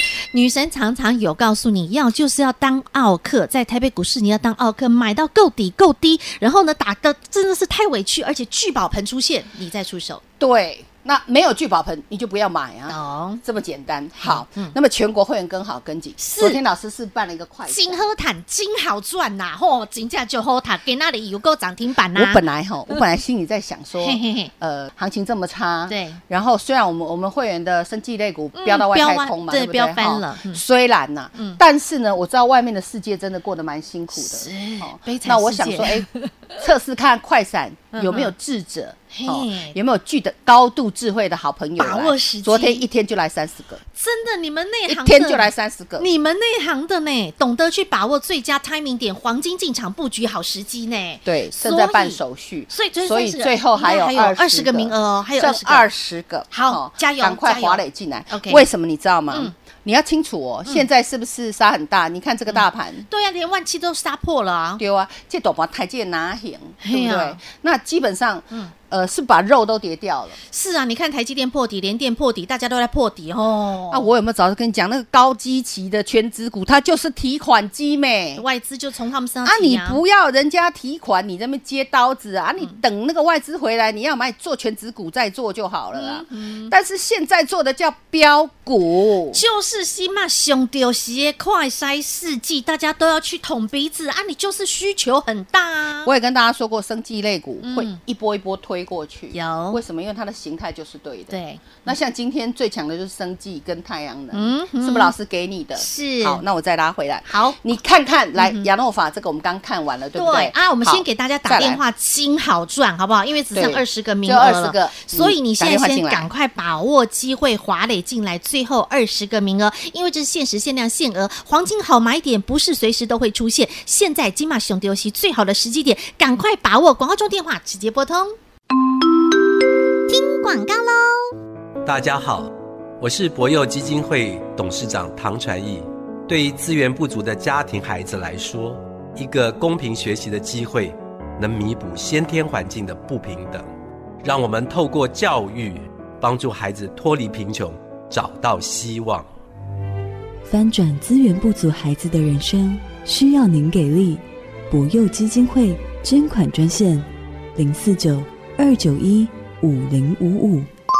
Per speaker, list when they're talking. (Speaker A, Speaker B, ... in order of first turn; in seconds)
Speaker A: 0.3-10.2, 12.9-13.4, 14.2-14.7, 16.2-16.6, 17.6-23.0, 24.0-24.5, 25.9-26.2, 28.5-30.6, 31.4-31.6, 34.1-36.3, 37.9-38.3, 39.1-39.8, 41.8-42.9, 44.0-55.9, 56.5-58.6, 62.5-64.8, 66.8-67.4, 70.5-74.1, 78.4-80.0, 85.9-86.7, 89.3-96.1, 97.6-98.0, 99.3-99.8, 101.3-101.9, 104.3-105.1, 105.8-106.4, 107.2-107.6, 108.4-108.7, 110.1-128.3, 130.1-131.3
Speaker B: 10.4-18.1, 22.1-36.1, 36.6-43.8, 44.9-46.1, 51.2-63.1, 64.8-70.4, 73.9-78.4, 79.4-89.4, 96.0-111.8, 113.5-116.3
Speaker C: 131.8-143.7, 144.2-149.3
Speaker D: 150.4-160.7